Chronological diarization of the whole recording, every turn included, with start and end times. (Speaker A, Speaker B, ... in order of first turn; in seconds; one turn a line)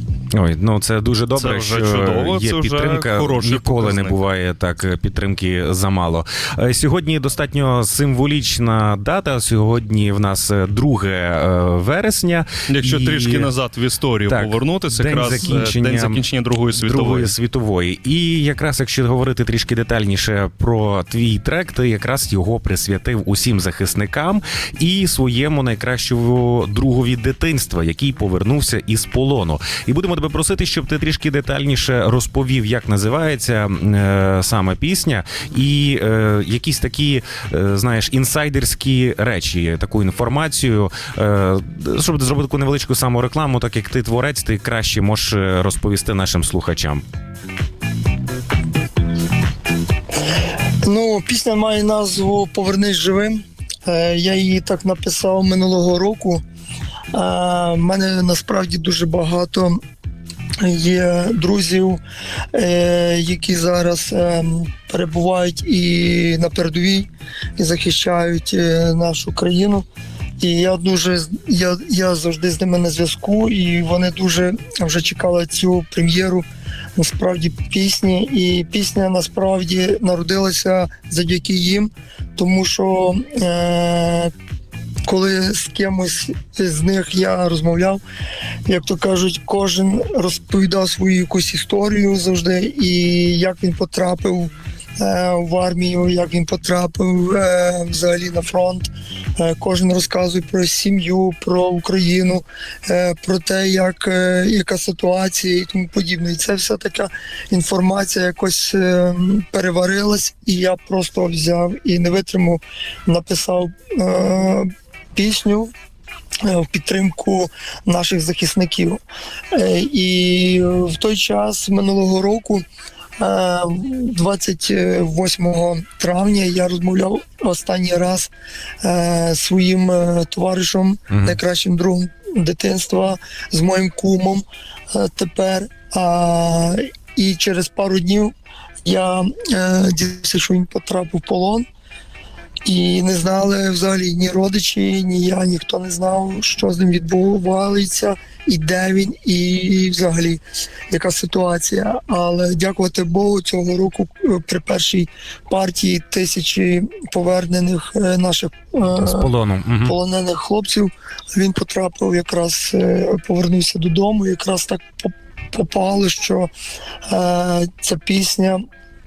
Speaker A: 0.3-13.5
Speaker B: 1.4-4.2
Speaker B: 12.7-17.3
Speaker A: 14.3-16.2
Speaker A: 16.7-47.0
Speaker C: 50.8-56.4
Speaker C: 57.1-59.8
Speaker C: 60.6-62.0
Speaker C: 62.5-69.8
Speaker C: 70.4-84.3
Speaker C: 85.0-88.0
Speaker C: 88.7-115.7
Speaker C: 116.4-119.0
Speaker C: 119.5-122.6
Speaker C: 123.2-128.3
Speaker C: 128.8-138.3
Speaker A: 131.1-131.4
Speaker C: 138.8-141.7
Speaker C: 142.6-159.3
Speaker A: 159.0-159.9
Speaker C: 159.8-166.5
Speaker C: 167.0-168.6